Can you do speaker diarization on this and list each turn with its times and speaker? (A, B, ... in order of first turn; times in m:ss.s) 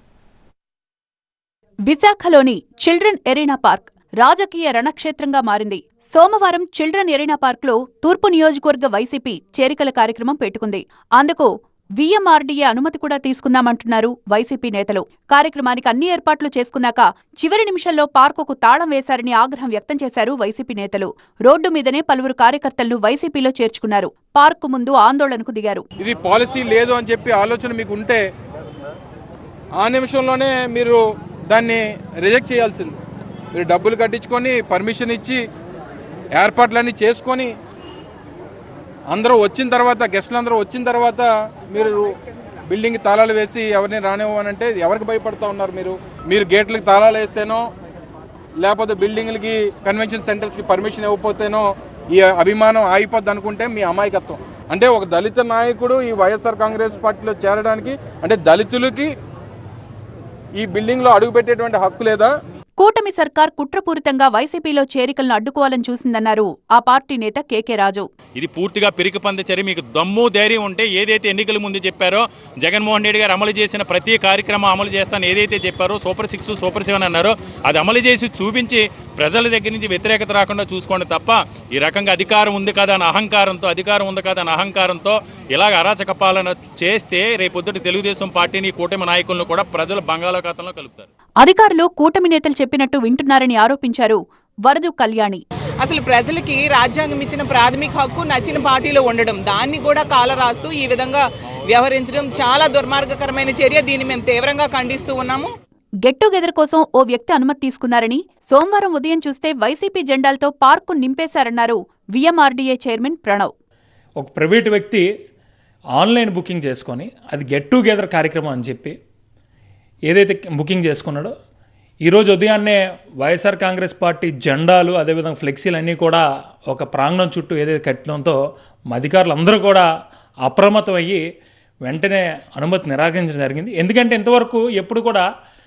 0:01.9-0:11.5 A
0:12.0-0:25.7 A
0:26.0-0:28.2 B
0:29.8-0:33.0 B
0:33.5-0:35.4 B
0:36.4-0:37.5 B
0:39.1-0:42.2 B
0:42.7-0:47.6 B
0:48.6-0:59.1 B
1:00.6-1:02.3 B
1:02.8-1:07.9 A
1:08.4-1:31.1 C
1:31.4-1:34.2 A
1:34.7-1:35.3 A
1:35.8-1:45.5 D
1:46.0-1:53.4 A
1:54.2-1:55.0 E
1:56.0-1:58.9 E
2:00.1-2:01.3 E
2:02.0-2:08.4 E
2:08.9-2:09.9 E
2:10.4-2:11.2 E
2:11.9-2:15.2 E